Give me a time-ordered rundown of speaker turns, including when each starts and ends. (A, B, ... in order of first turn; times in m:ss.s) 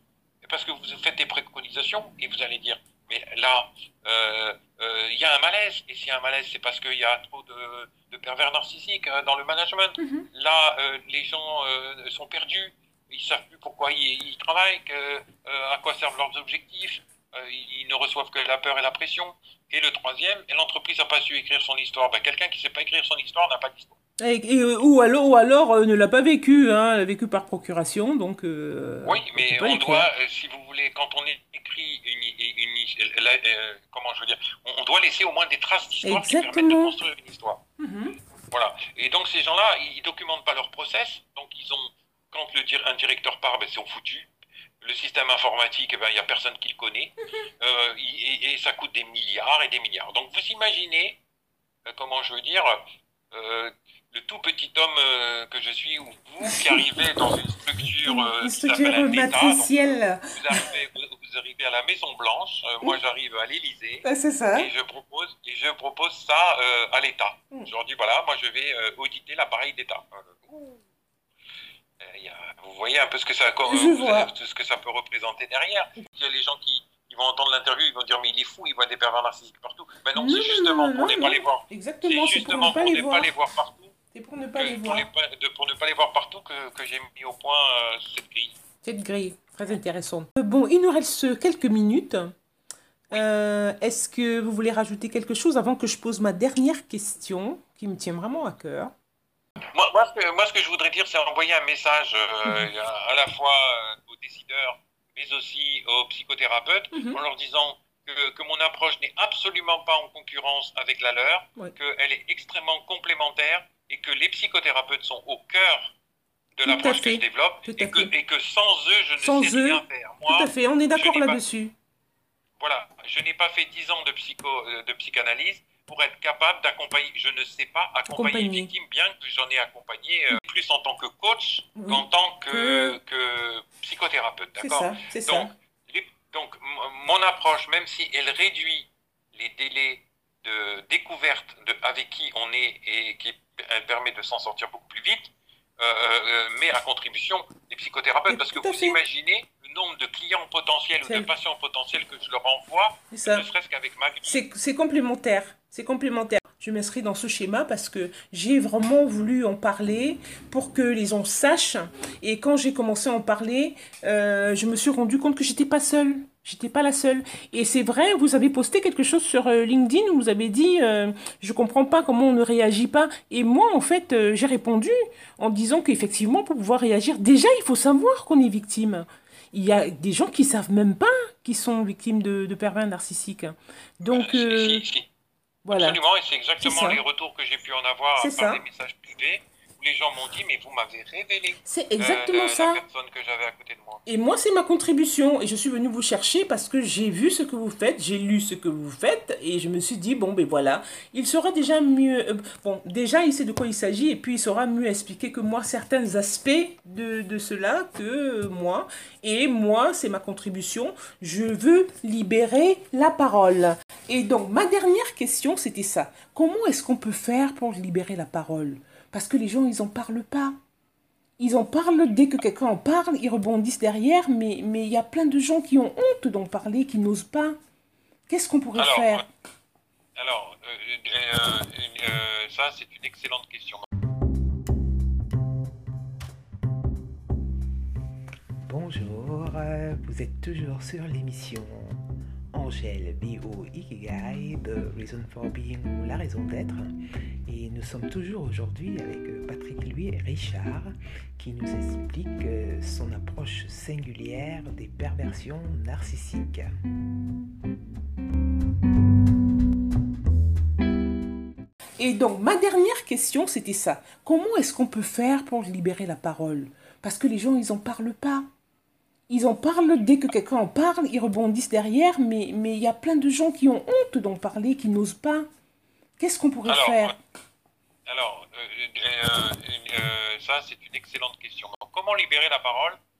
0:00.4-0:24.0 A
0:10.0-0:10.3 B
0:24.2-0:30.1 B
0:29.0-0:37.6 A
0:36.0-0:37.0 B
0:37.8-0:38.2 B
0:38.5-0:44.3 A
0:44.8-0:51.2 A
0:51.8-1:10.8 A
0:56.4-0:56.8 B
0:57.9-1:00.6 B
1:04.0-1:04.7 B
1:12.0-1:24.0 A
1:13.7-1:14.3 B
1:20.2-1:23.3 B
1:24.1-1:25.0 B
1:24.5-1:28.6 A
1:28.8-1:32.3 B
1:33.1-1:38.9 B
1:39.7-1:55.9 A
1:46.9-1:47.2 B
1:56.6-2:01.4 A
1:56.6-1:58.1 B
1:59.2-2:01.7 B
2:02.6-2:34.4 A
2:08.1-2:08.7 B
2:11.8-2:13.0 B
2:14.6-2:15.5 B
2:28.3-2:29.0 B
2:33.1-2:33.5 B
2:34.2-3:04.8 B
3:04.0-3:05.1 A
3:05.6-3:06.0 B
3:05.7-3:14.0 A
3:06.6-3:07.0 B
3:08.2-3:08.6 B
3:11.6-3:12.8 B
3:14.0-3:40.6 B
3:41.4-3:47.6 B
3:48.3-3:49.2 B
3:48.7-3:49.3 A
3:50.2-3:53.9 A
3:58.6-4:02.0 C
4:02.5-4:06.9 C
4:07.4-4:16.7 C
4:22.0-4:28.4 B
4:29.3-4:35.5 B
4:36.2-4:37.2 B
4:36.6-4:37.2 A
4:38.1-4:43.0 A